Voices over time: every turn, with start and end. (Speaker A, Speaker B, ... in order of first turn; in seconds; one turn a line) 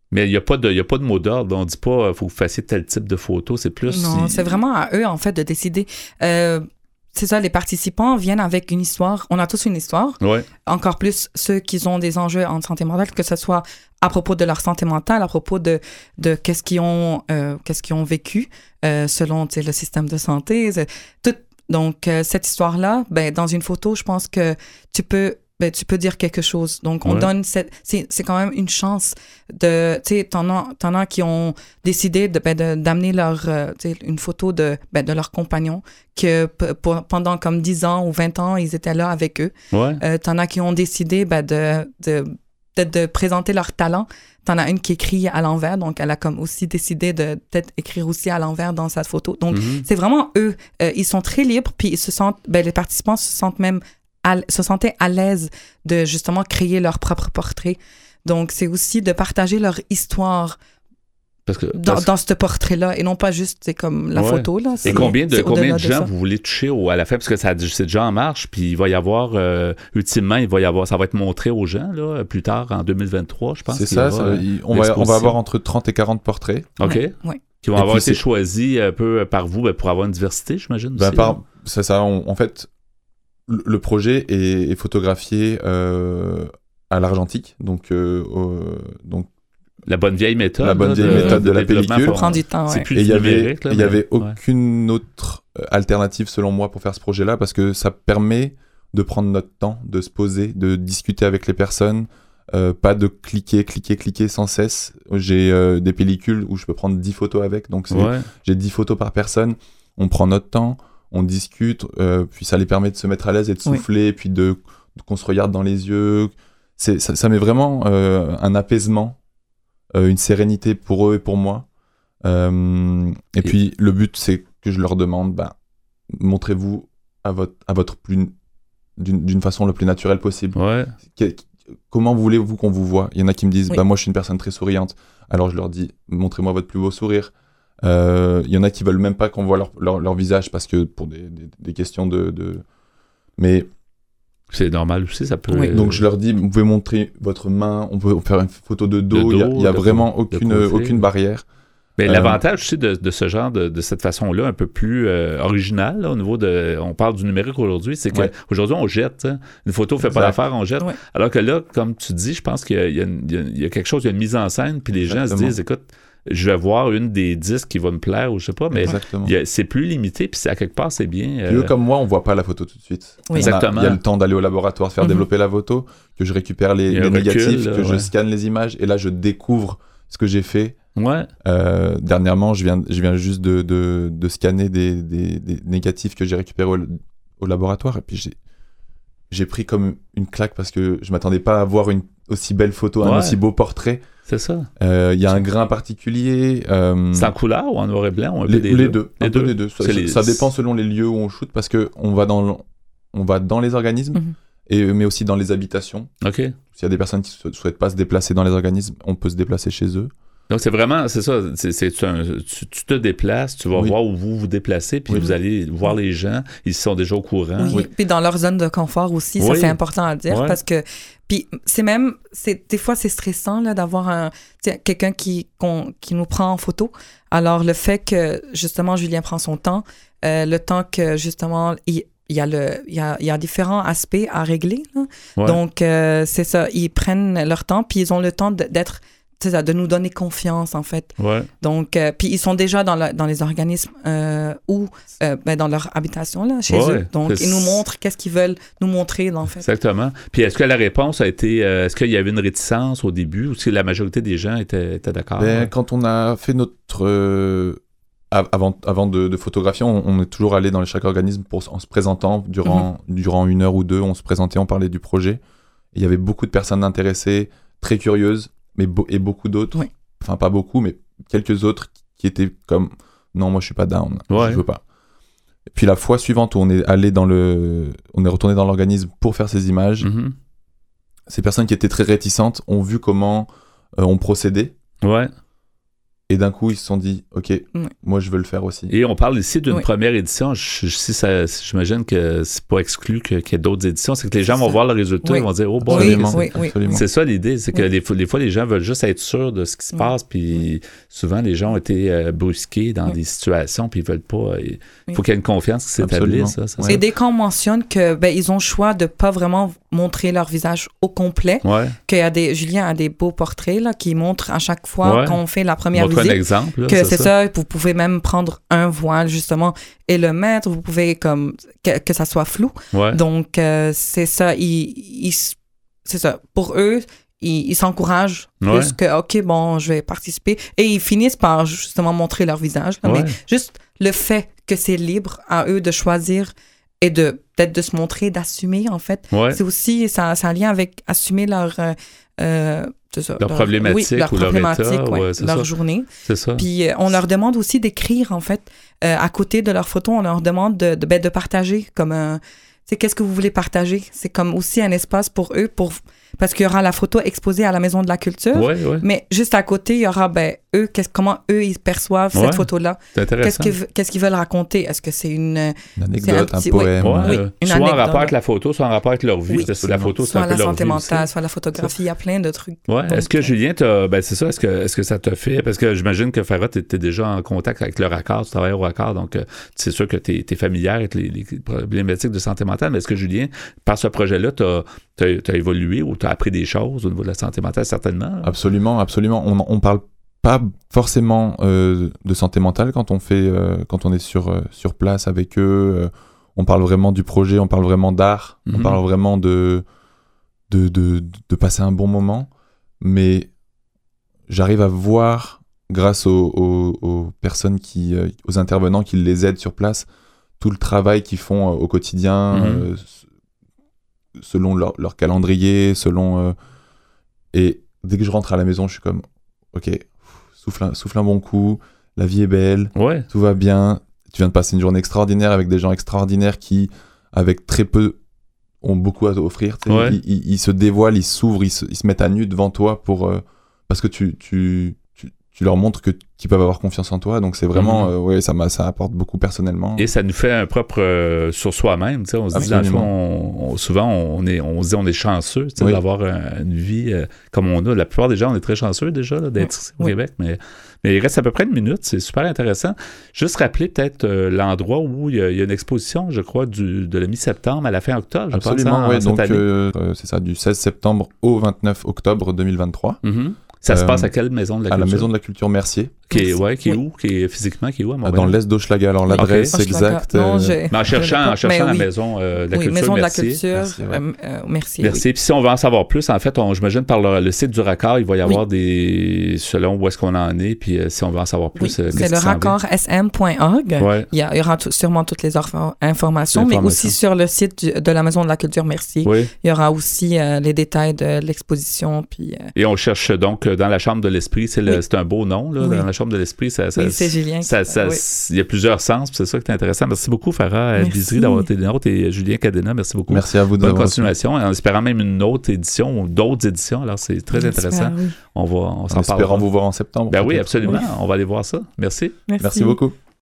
Speaker A: 0.1-4.6
Speaker B: 3.9-60.6
Speaker A: 10.2-10.5
Speaker A: 39.7-40.0
Speaker A: 49.5-49.9
Speaker A: 61.5-62.1
Speaker B: 61.8-66.1
Speaker A: 64.2-75.4
Speaker C: 64.8-65.1
Speaker C: 73.7-76.8
Speaker A: 76.8-81.3
Speaker B: 76.8-77.4
Speaker C: 77.8-78.2
Speaker C: 81.0-82.7
Speaker C: 83.5-89.3
Speaker A: 89.9-94.3
Speaker C: 90.6-92.2
Speaker B: 91.0-92.9
Speaker C: 92.9-119.2
Speaker A: 107.9-108.2
Speaker C: 119.9-121.7
Speaker C: 122.2-125.5
Speaker C: 126.1-128.3
Speaker C: 129.0-142.6
Speaker A: 130.6-130.9
Speaker C: 143.4-143.7
Speaker A: 144.5-146.0
Speaker C: 145.7-151.4
Speaker A: 149.1-151.0
Speaker A: 152.0-171.7
Speaker C: 152.1-152.4
Speaker C: 160.0-160.4
Speaker C: 165.1-165.6
Speaker C: 168.7-169.3
Speaker C: 171.5-180.8
Speaker A: 173.3-174.0
Speaker A: 176.9-178.1
Speaker A: 181.0-181.3
Speaker C: 181.4-188.4
Speaker C: 189.3-194.1
Speaker A: 193.0-193.4
Speaker A: 194.3-194.7
Speaker C: 194.8-197.3
Speaker A: 197.1-200.5
Speaker C: 198.5-206.1
Speaker A: 206.2-206.6
Speaker C: 206.7-210.1
Speaker A: 210.5-217.8
Speaker B: 215.2-215.9
Speaker B: 217.6-249.7
Speaker A: 219.4-219.8
Speaker A: 220.3-220.6
Speaker A: 241.2-241.5
Speaker A: 246.7-247.8
Speaker A: 249.6-255.7
Speaker C: 255.4-257.8
Speaker C: 258.3-265.4
Speaker C: 265.9-274.8
Speaker A: 274.3-274.6
Speaker C: 275.7-280.1
Speaker A: 280.0-280.3
Speaker C: 281.3-284.7
Speaker A: 285.0-285.3
Speaker C: 286.3-288.9
Speaker A: 288.9-307.0
Speaker B: 294.5-297.0
Speaker C: 295.8-297.0
Speaker C: 306.0-307.0
Speaker B: 306.9-368.3
Speaker A: 311.6-311.9
Speaker A: 315.0-315.4
Speaker A: 315.9-317.3
Speaker A: 322.9-323.2
Speaker A: 328.6-328.9
Speaker A: 333.1-333.3
Speaker A: 339.3-339.6
Speaker A: 343.4-345.7
Speaker A: 346.2-346.7
Speaker A: 358.6-359.0
Speaker A: 362.3-363.7
Speaker C: 366.0-367.4
Speaker A: 367.0-371.9
Speaker C: 369.6-370.1
Speaker B: 370.2-373.5
Speaker A: 372.9-388.5
Speaker C: 388.4-399.9
Speaker A: 398.7-399.0
Speaker C: 400.7-402.5
Speaker C: 403.0-403.5
Speaker C: 404.5-410.1
Speaker C: 410.6-413.2
Speaker A: 412.5-412.9
Speaker C: 414.4-416.6
Speaker C: 417.5-428.2
Speaker A: 423.0-423.3
Speaker C: 428.8-440.1
Speaker A: 429.9-430.2
Speaker A: 437.8-438.1
Speaker A: 440.0-459.6
Speaker C: 442.5-443.1
Speaker B: 449.6-450.1
Speaker C: 458.5-463.3
Speaker A: 463.2-465.3
Speaker C: 463.9-464.3
Speaker C: 464.9-466.2
Speaker A: 466.3-468.6
Speaker B: 466.3-467.0
Speaker C: 468.2-470.8
Speaker B: 469.3-472.1
Speaker A: 469.4-470.0
Speaker A: 470.9-473.6
Speaker B: 472.7-475.2
Speaker C: 473.7-474.2
Speaker A: 475.0-482.8
Speaker B: 481.8-492.7
Speaker A: 484.0-484.3
Speaker A: 486.5-487.1
Speaker A: 489.2-489.5
Speaker A: 492.8-509.7
Speaker B: 495.8-496.1
Speaker B: 497.0-498.2
Speaker B: 501.0-501.7
Speaker C: 503.3-504.4
Speaker B: 507.5-508.3
Speaker C: 509.1-511.0
Speaker A: 510.3-512.4
Speaker B: 512.5-513.0
Speaker C: 512.6-513.2